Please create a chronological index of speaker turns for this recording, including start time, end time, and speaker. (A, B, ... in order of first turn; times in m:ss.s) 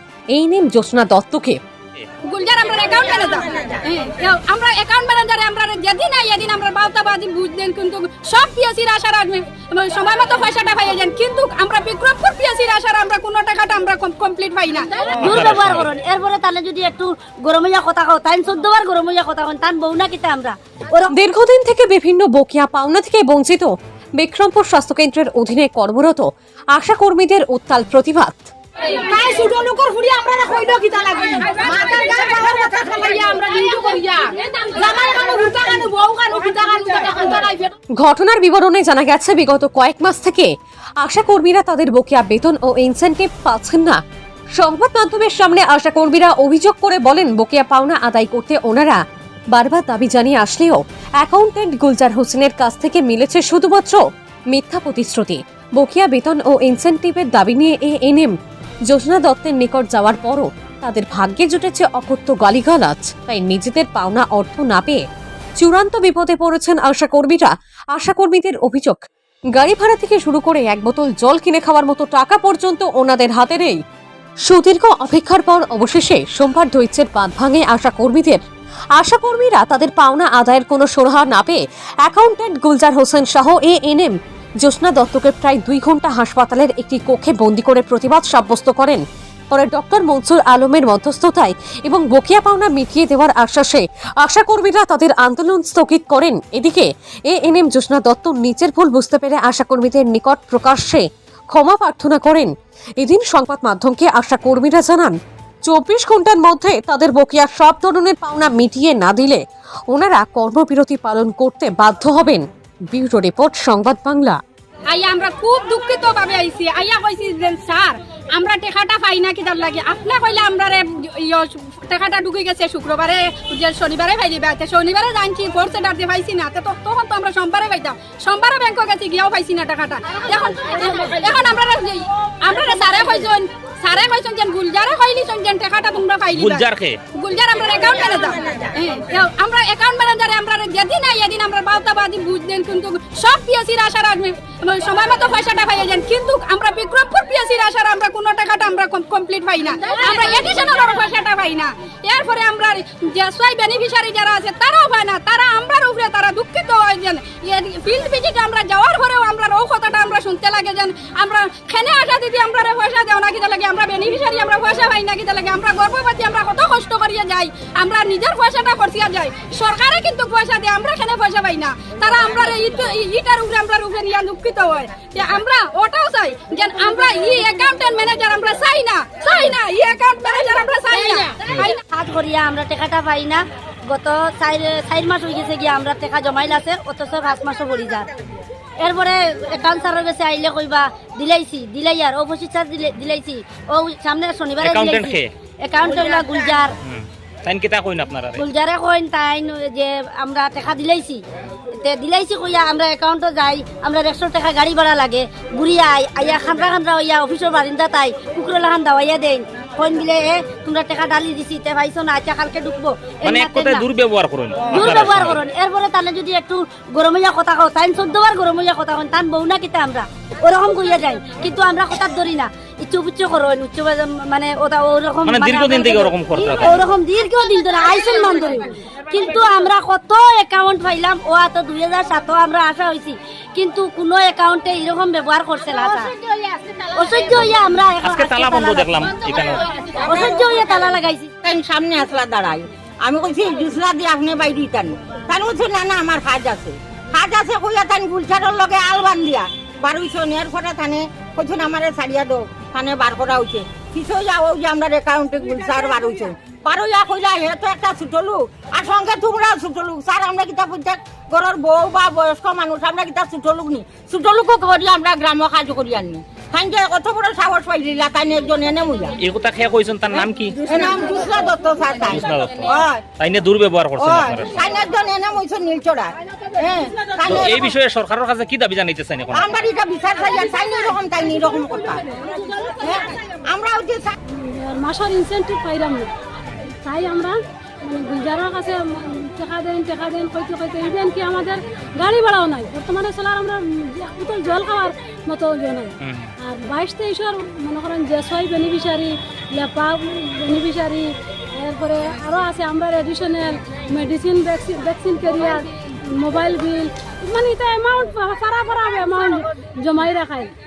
0:00.3-0:01.6 A
0:02.3-0:15.1 B
0:15.1-0:21.1 C
0:15.2-0:15.9 D
0:21.1-0:28.5 A
0:31.0-0:32.0 B
0:31.6-0:33.4 E
0:33.4-0:34.2 B
0:34.8-0:36.3 B
0:37.1-0:37.5 B
0:38.0-0:44.0 A
0:44.6-0:49.0 A
0:49.5-0:54.0 A
0:54.5-0:58.3 A
0:58.9-1:05.0 A
1:05.6-1:09.0 A
1:09.6-1:13.8 A
1:14.5-1:18.4 A
1:19.0-1:54.4 A
1:54.9-3:01.8 B
2:16.4-2:17.0 D
3:01.6-3:08.1 C
3:08.8-3:16.8 C
3:14.6-3:15.3 D
3:16.8-3:18.4 D
3:18.4-3:21.2 C
3:21.8-3:33.9 C
3:33.2-3:35.4 D
3:34.7-3:56.1 C
3:45.2-3:46.9 D
3:56.9-4:01.3 C
3:58.0-3:59.7 D
4:01.4-4:29.2 E
4:29.2-4:30.6 D
4:30.6-4:33.1 E
4:32.1-4:34.5 D
4:34.0-4:37.6 E
4:37.3-4:39.5 D
4:39.3-4:42.1 E
4:42.7-4:44.1 E
4:44.4-4:46.1 F
4:46.8-5:10.5 F
4:56.0-4:56.3 D